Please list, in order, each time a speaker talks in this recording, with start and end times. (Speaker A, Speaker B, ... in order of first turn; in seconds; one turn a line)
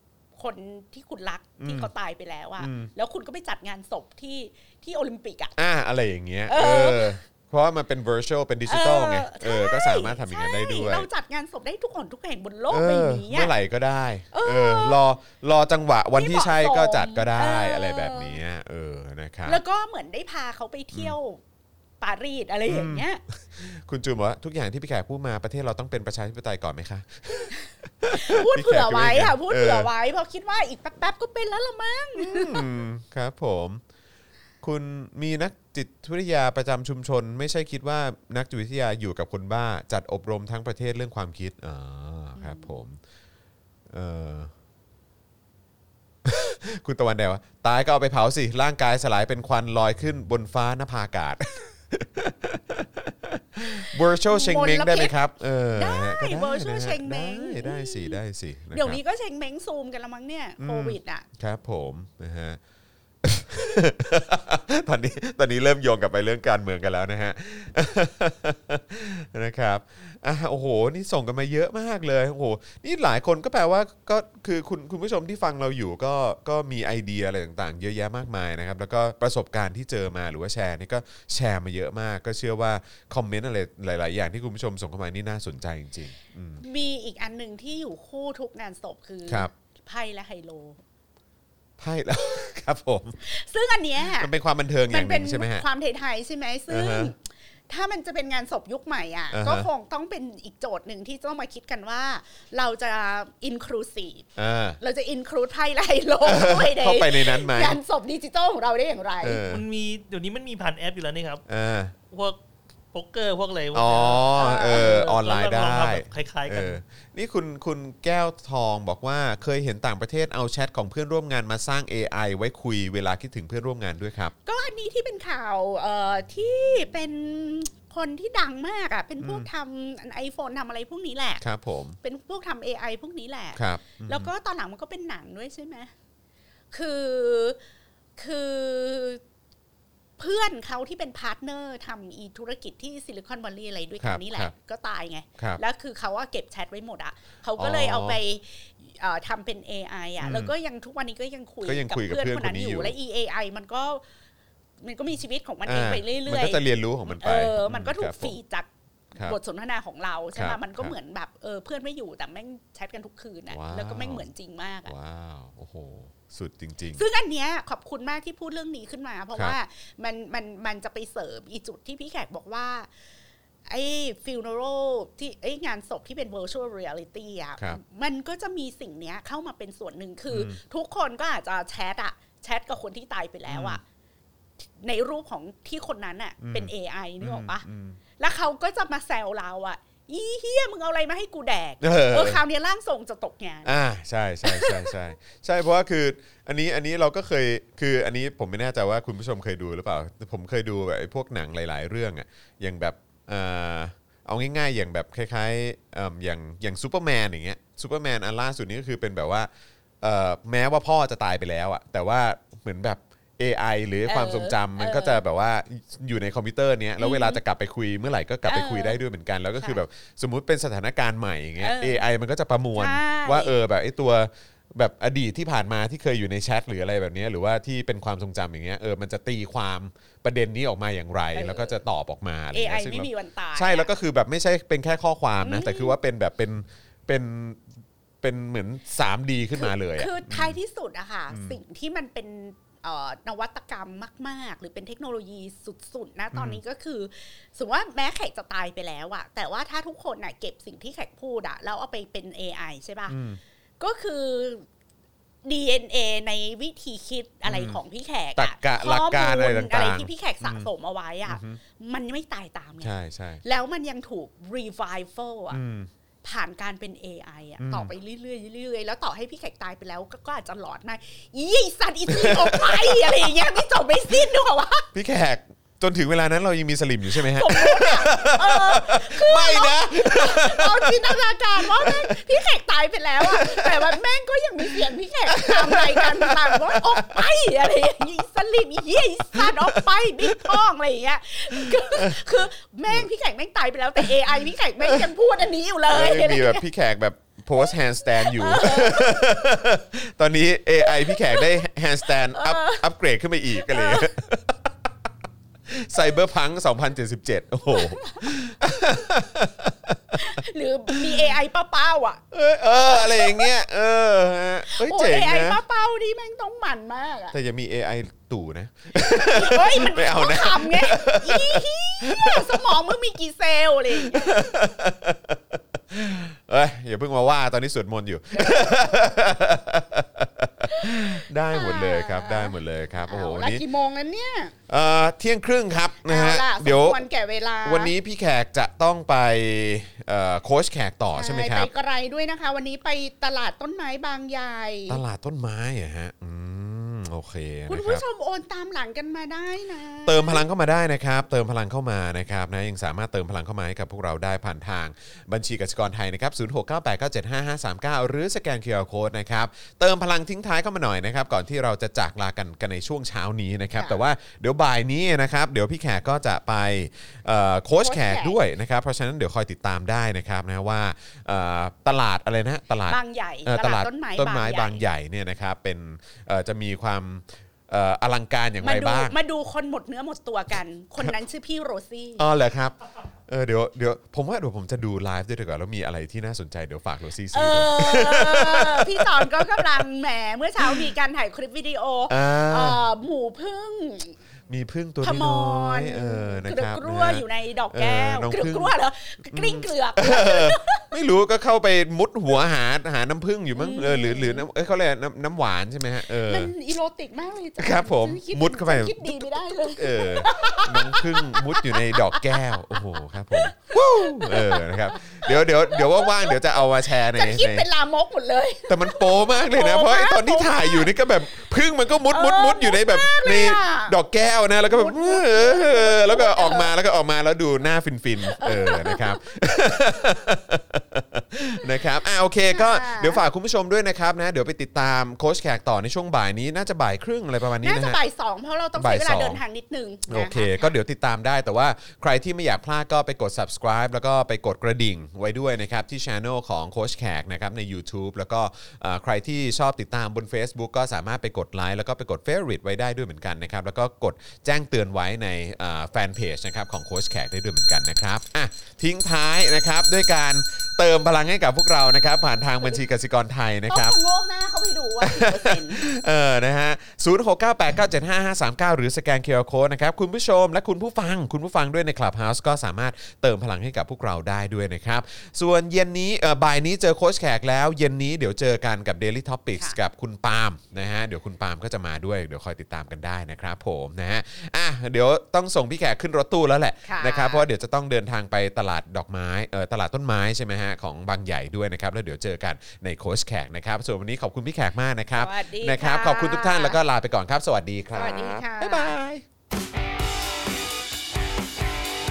Speaker A: 0.4-5.6
Speaker B: 1.6-1.9
Speaker B: 2.6-2.9
Speaker B: 5.6-11.1
Speaker A: 6.5-7.2
Speaker A: 8.7-13.5
Speaker B: 12.7-19.6
Speaker A: 14.3-15.0
Speaker A: 16.2-18.4
Speaker A: 19.4-21.4
Speaker A: 22.0-23.2
Speaker B: 22.7-29.9
Speaker A: 28.1-32.8
Speaker B: 32.2-33.8
Speaker B: 34.6-43.0
Speaker A: 42.4-42.7
Speaker B: 43.9-44.5
Speaker B: 46.2-59.0
Speaker A: 54.2-55.1
Speaker A: 55.7-58.2
Speaker A: 58.7-61.3
Speaker B: 60.6-62.6
Speaker B: 63.2-86.6
Speaker A: 86.6-90.8
Speaker B: 91.8-93.2
Speaker A: 93.2-94.3
Speaker B: 94.1-95.7
Speaker A: 94.9-109.4
Speaker B: 96.7-97.1
Speaker B: 99.3-99.7
Speaker B: 104.4-104.8
Speaker B: 106.2-107.8
Speaker B: 109.2-109.7
Speaker C: 109.3-111.4
Speaker B: 111.5-111.9
Speaker C: 112.1-112.4
Speaker C: 112.9-116.8
Speaker B: 113.7-124.3
Speaker A: 114.3-115.2
Speaker A: 124.5-131.4
Speaker B: 129.2-129.5
Speaker B: 131.4-132.0
Speaker A: 132.0-135.9
Speaker B: 133.6-134.3
Speaker A: 136.7-137.6
Speaker A: 138.2-139.2
Speaker A: 140.2-154.0
Speaker B: 144.0-144.5
Speaker B: 147.6-148.2
Speaker B: 150.2-150.5
Speaker B: 151.6-152.9
Speaker A: 154.8-164.9
Speaker B: 155.7-158.4
Speaker B: 160.3-160.9
Speaker B: 163.5-164.2
Speaker B: 164.8-167.0
Speaker A: 166.9-172.9
Speaker A: 173.7-183.8
Speaker B: 180.3-180.6
Speaker B: 183.5-183.8
Speaker A: 184.6-187.7
Speaker B: 186.4-188.0
Speaker A: 188.2-193.7
Speaker B: 191.8-192.4
Speaker B: 193.6-209.5
Speaker A: 194.4-195.0
Speaker B: 210.0-237.7
Speaker A: 214.1-215.2
Speaker A: 217.0-217.4
Speaker A: 218.5-219.0
Speaker A: 221.6-222.1
Speaker A: 222.8-223.6
Speaker A: 231.3-231.8
Speaker A: 232.5-233.9
Speaker A: 235.4-236.0
Speaker B: 238.2-240.6
Speaker A: 239.5-253.2
Speaker B: 241.3-241.6
Speaker B: 246.3-246.6
Speaker B: 253.1-253.4
Speaker A: 253.8-254.7
Speaker A: 255.4-262.9
Speaker B: 257.4-257.8
Speaker B: 258.4-260.7
Speaker B: 261.3-261.6
Speaker B: 262.8-263.4
Speaker A: 263.4-265.6
Speaker B: 265.5-265.9
Speaker A: 266.2-274.9
Speaker B: 267.6-267.9
Speaker B: 272.1-273.6
Speaker B: 274.9-282.2
Speaker A: 277.1-296.6
Speaker B: 283.2-284.0
Speaker B: 284.7-287.4
Speaker B: 289.2-290.6
Speaker B: 291.5-292.3
Speaker B: 294.8-295.1
Speaker B: 295.9-304.6
Speaker A: 297.6-299.6
Speaker A: 300.8-302.9
Speaker A: 303.5-304.1
Speaker B: 305.7-310.2
Speaker A: 307.6-308.9
Speaker A: 310.2-312.2
Speaker B: 310.9-311.3
Speaker B: 312.3-315.6
Speaker A: 312.9-313.5
Speaker A: 314.7-317.4
Speaker B: 317.3-322.8
Speaker A: 318.9-324.4
Speaker B: 323.9-333.6
Speaker A: 328.3-329.1
Speaker A: 330.7-334.5
Speaker B: 334.7-337.1
Speaker A: 336.0-337.9
Speaker B: 337.6-341.7
Speaker A: 341.1-345.0
Speaker B: 344.9-348.0
Speaker A: 347.7-350.4
Speaker B: 350.1-379.2
Speaker A: 363.8-364.0
Speaker A: 367.8-368.4
Speaker A: 372.9-374.8
Speaker A: 378.6-382.3
Speaker B: 382.2-382.8
Speaker B: 383.3-389.8
Speaker A: 387.3-394.2
Speaker B: 390.6-390.9
Speaker B: 392.1-392.8
Speaker B: 394.5-398.7
Speaker A: 395.0-400.9
Speaker B: 399.3-406.5
Speaker A: 403.6-404.5
Speaker A: 406.1-420.9
Speaker B: 407.6-417.7
Speaker B: 418.7-438.0
Speaker A: 422.1-423.9
Speaker A: 424.7-426.7
Speaker A: 428.2-429.3
Speaker A: 432.5-433.2
Speaker A: 437.6-440.7
Speaker B: 438.7-439.4
Speaker B: 440.1-464.0
Speaker A: 463.7-465.9
Speaker B: 465.0-499.2
Speaker A: 486.8-487.4
Speaker A: 495.2-496.8
Speaker A: 497.9-498.9